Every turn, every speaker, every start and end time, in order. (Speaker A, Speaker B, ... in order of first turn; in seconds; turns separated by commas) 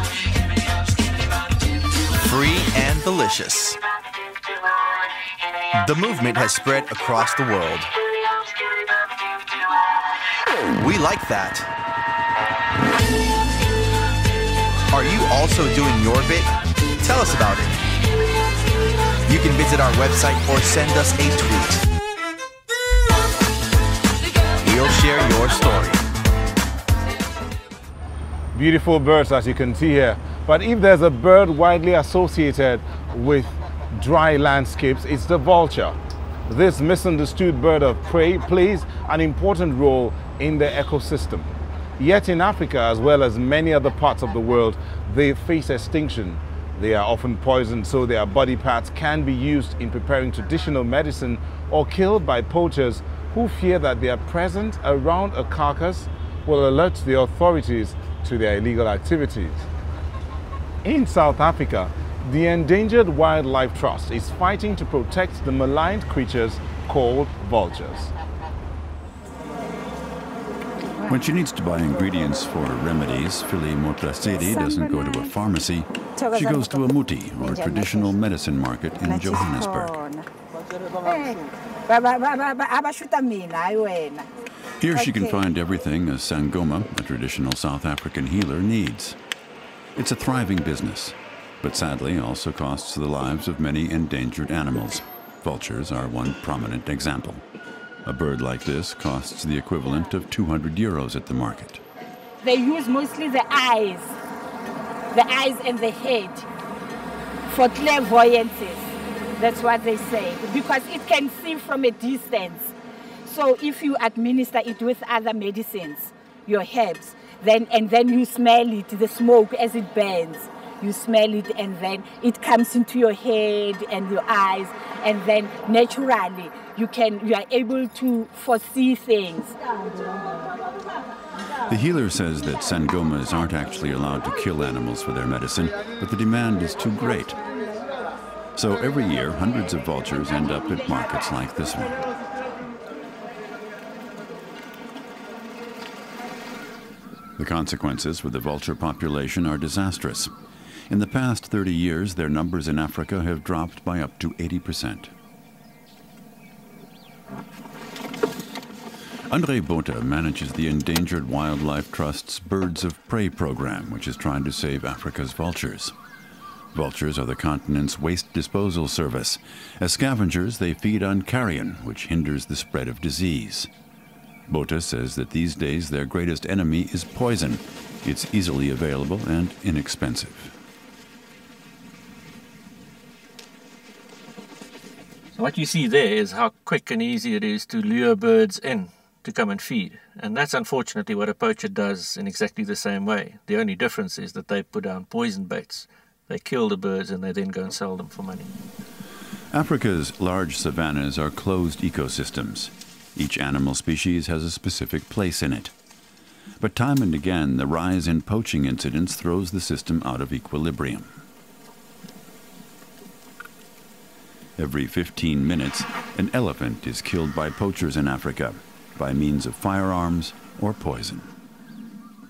Speaker A: 2.2-3.8, Speaker A: 5.8-7.9, Speaker A: 10.7-11.7, Speaker A: 14.9-17.8, Speaker A: 19.3-21.9, Speaker A: 24.6-26.0, Speaker B: 28.5-36.0, Speaker B: 36.5-59.6, Speaker B: 60.8-68.1, Speaker C: 71.1-80.0, Speaker D: 74.3-75.3, Speaker D: 76.2-78.2, Speaker D: 79.0-80.3, Speaker D: 81.0-84.3, Speaker C: 84.8-89.2, Speaker D: 84.9-85.4, Speaker C: 90.0-97.4, Speaker C: 98.0-101.8, Speaker D: 102.4-104.1, Speaker D: 105.1-106.5, Speaker D: 107.5-112.7, Speaker D: 113.2-129.6, Speaker C: 131.7-137.4, Speaker C: 138.6-142.0, Speaker C: 147.4-150.3, Speaker C: 150.9-155.1, Speaker C: 159.3-165.9, Speaker C: 166.7-173.7, Speaker C: 174.5-180.5, Speaker E: 185.3-198.6, Speaker C: 199.5-205.7, Speaker C: 206.6-211.1, Speaker C: 214.6-221.3